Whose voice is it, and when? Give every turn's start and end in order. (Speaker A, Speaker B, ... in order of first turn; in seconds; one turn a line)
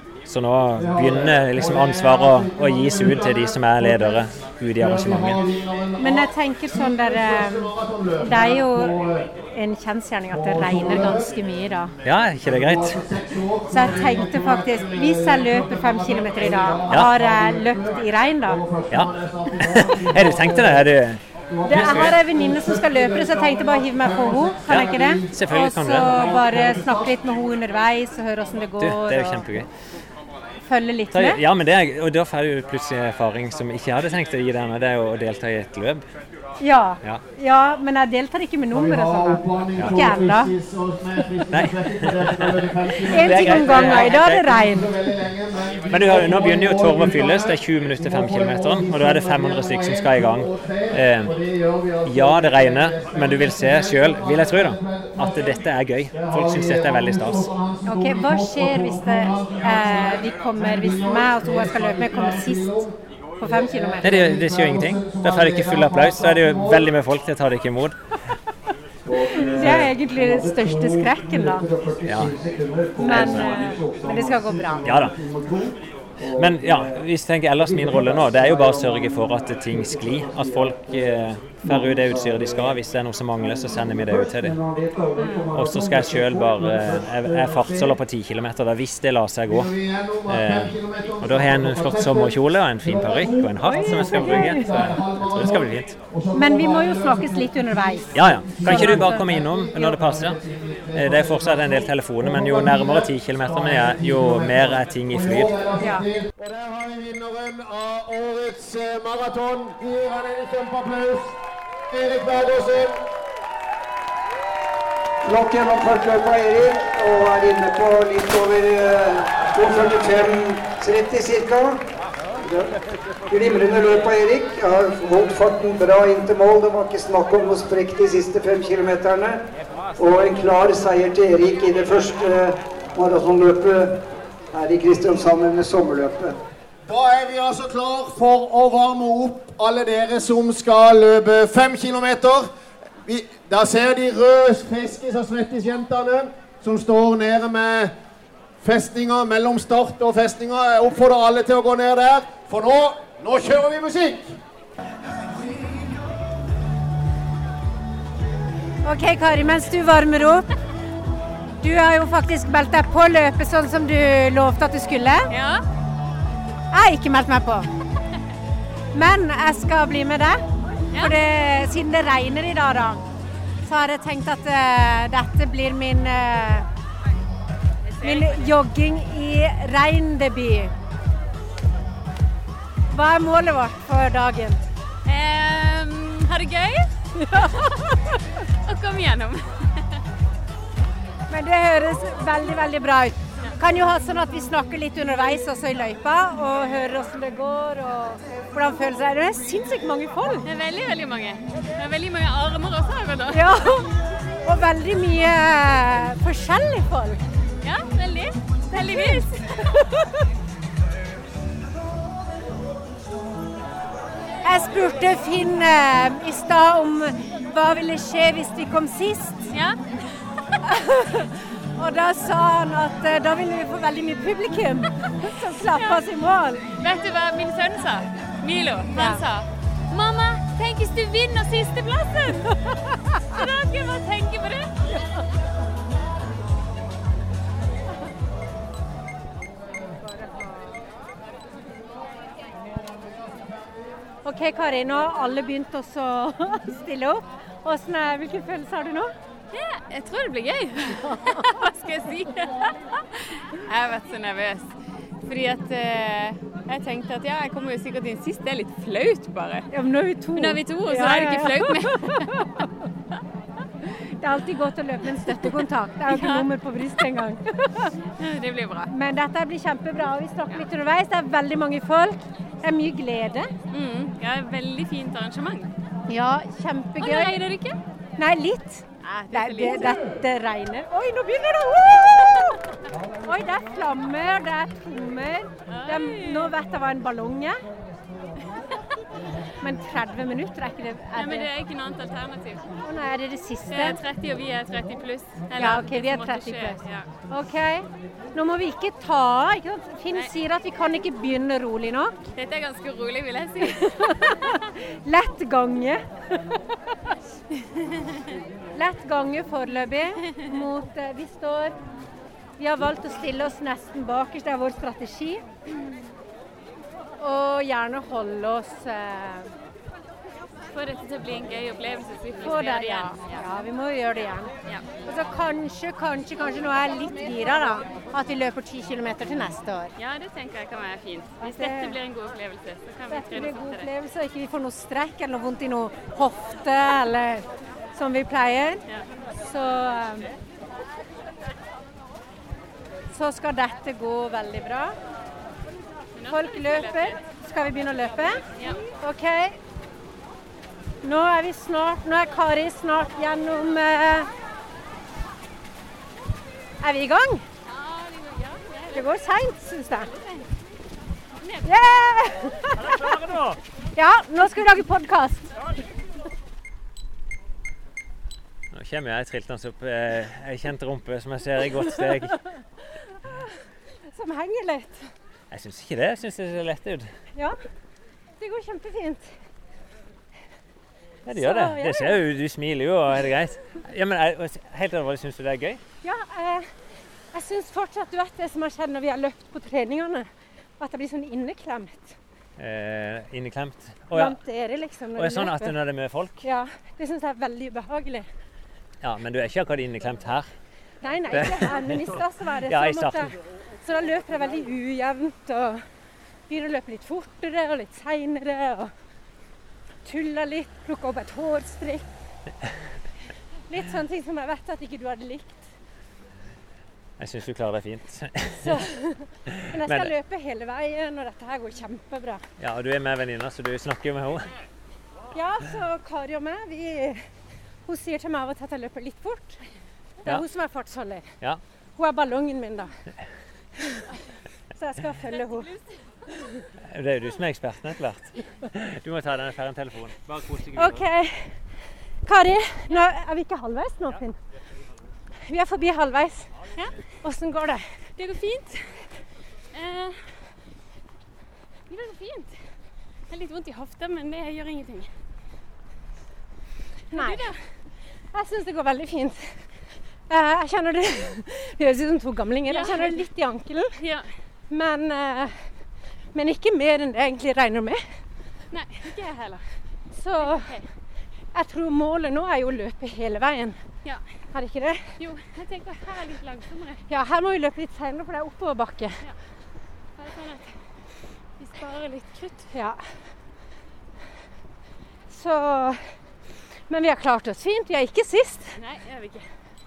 Speaker A: 0.3-5.4
Speaker B: 0.7-9.3
Speaker C: 6.0-8.9
Speaker C: 9.5-11.9
Speaker B: 10.3-11.3
Speaker A: 12.0-13.0
Speaker B: 12.3-20.9
Speaker C: 13.7-18.6
Speaker A: 18.9-22.2
Speaker B: 21.5-27.2
Speaker C: 21.6-29.4
Speaker A: 24.7-26.2
Speaker A: 28.8-29.7
Speaker C: 30.6-31.4
Speaker A: 31.1-36.0
Speaker C: 36.6-40.5
Speaker B: 38.7-66.9
Speaker A: 41.5-44.5
Speaker C: 43.0-44.9
Speaker A: 45.9-51.3
Speaker A: 52.0-57.5
Speaker C: 57.9-62.8
Speaker C: 63.4-64.2
Speaker A: 64.0-68.0
Speaker D: 69.0-77.0
Speaker C: 69.3-71.7
Speaker A: 69.5-69.9
Speaker A: 72.0-72.4
Speaker C: 73.0-74.9
Speaker A: 73.0-73.6
Speaker A: 74.8-75.2
Speaker A: 76.3-84.6
Speaker D: 77.6-81.0
Speaker D: 81.6-82.7
Speaker D: 83.4-87.9
Speaker C: 85.2-85.5
Speaker A: 85.5-89.7
Speaker B: 89.5-113.0
Speaker A: 90.3-95.9
Speaker C: 93.7-94.6
Speaker C: 96.3-99.3
Speaker A: 98.1-100.4
Speaker A: 100.9-105.6
Speaker C: 105.8-106.0
Speaker D: 115.2-121.8
Speaker D: 122.4-129.4
Speaker D: 130.0-136.4
Speaker B: 136.8-142.5
Speaker B: 143.0-147.9
Speaker B: 148.6-154.4
Speaker C: 158.8-160.5
Speaker C: 161.6-165.3
Speaker E: 165.3-165.6
Speaker C: 166.7-167.7
Speaker C: 168.9-173.0
Speaker C: 173.6-176.7
Speaker E: 177.8-178.5
Speaker C: 178.0-180.7
Speaker C: 182.9-184.6
Speaker E: 185.1-186.9
Speaker C: 187.2-187.9
Speaker E: 187.4-187.7
Speaker E: 188.6-190.0
Speaker C: 191.3-200.4
Speaker E: 200.4-203.4
Speaker C: 203.3-203.9
Speaker C: 204.4-207.2
Speaker E: 207.6-209.3
Speaker C: 208.7-210.2
Speaker C: 214.4-219.4
Speaker E: 219.5-219.8
Speaker C: 220.6-226.6
Speaker E: 225.6-226.0
Speaker E: 226.8-232.5
Speaker C: 228.9-229.2
Speaker C: 232.9-233.2
Speaker E: 233.3-234.7
Speaker C: 244.2-249.1
Speaker E: 249.5-254.7
Speaker C: 251.0-251.7
Speaker E: 255.2-259.7
Speaker C: 259.7-262.7
Speaker E: 260.3-262.4
Speaker C: 263.9-267.9
Speaker E: 266.1-266.5
Speaker E: 268.2-268.9
Speaker C: 268.9-273.5
Speaker E: 273.7-275.7
Speaker C: 276.1-277.4
Speaker E: 277.0-277.8
Speaker C: 278.2-282.6
Speaker E: 279.0-280.1
Speaker C: 283.2-287.6
Speaker E: 285.7-286.5
Speaker C: 289.6-291.5
Speaker E: 291.1-292.7
Speaker C: 292.8-294.0
Speaker E: 293.7-297.1
Speaker C: 295.5-302.1
Speaker E: 302.4-304.1
Speaker C: 303.6-306.6
Speaker E: 307.7-308.2
Speaker C: 308.7-311.8
Speaker C: 312.6-315.4
Speaker C: 317.2-319.5
Speaker E: 320.7-323.4
Speaker C: 322.4-324.5
Speaker C: 325.0-329.9
Speaker E: 330.0-333.9
Speaker C: 331.4-332.0
Speaker C: 333.1-338.8
Speaker C: 339.4-340.3
Speaker C: 343.1-344.9
Speaker E: 346.1-347.2
Speaker C: 346.3-349.6
Speaker C: 351.0-354.3
Speaker C: 356.8-357.4
Speaker E: 357.6-359.1
Speaker C: 358.9-360.1
Speaker E: 361.4-361.7
Speaker C: 361.6-363.1
Speaker A: 362.7-363.6
Speaker C: 363.9-365.5
Speaker A: 368.7-372.4
Speaker C: 374.1-375.1
Speaker A: 375.5-377.1
Speaker C: 378.4-379.3
Speaker A: 381.2-385.8
Speaker C: 381.3-382.2
Speaker C: 386.0-386.7
Speaker C: 387.3-390.3
Speaker C: 390.8-392.2
Speaker A: 392.6-394.4
Speaker C: 394.1-395.8
Speaker A: 395.1-396.4
Speaker C: 396.4-398.3
Speaker A: 399.0-400.5
Speaker C: 401.0-405.8
Speaker A: 401.3-402.1
Speaker A: 402.7-403.3
Speaker C: 406.5-408.9
Speaker C: 410.0-412.1
Speaker C: 413.7-415.7
Speaker A: 417.2-418.8
Speaker C: 418.6-422.4
Speaker A: 419.5-420.1
Speaker A: 422.6-424.5
Speaker C: 425.3-427.2
Speaker C: 427.9-429.6
Speaker C: 430.2-431.3
Speaker C: 432.0-432.9
Speaker C: 434.7-435.7
Speaker E: 435.5-435.9
Speaker A: 436.9-441.0
Speaker C: 440.7-441.6
Speaker C: 442.2-444.4
Speaker C: 445.5-446.5
Speaker C: 447.2-447.8
Speaker E: 448.2-448.8
Speaker E: 449.7-450.2
Speaker E: 451.9-452.5
Speaker E: 453.3-455.1
Speaker E: 457.1-457.6
Speaker C: 457.1-457.5
Speaker C: 458.3-459.5
Speaker C: 460.3-463.9
Speaker E: 462.7-463.2
Speaker E: 463.9-464.3
Speaker C: 464.7-465.5
Speaker C: 466.3-468.0
Speaker E: 468.7-469.6
Speaker C: 470.1-470.7
Speaker E: 470.4-470.9
Speaker C: 471.5-473.8
Speaker C: 474.5-475.1
Speaker E: 475.2-477.0
Speaker C: 477.1-479.2
Speaker E: 480.2-480.7
Speaker E: 481.6-482.7
Speaker C: 482.7-483.0
Speaker C: 485.3-486.0
Speaker C: 486.9-488.7
Speaker E: 488.8-489.4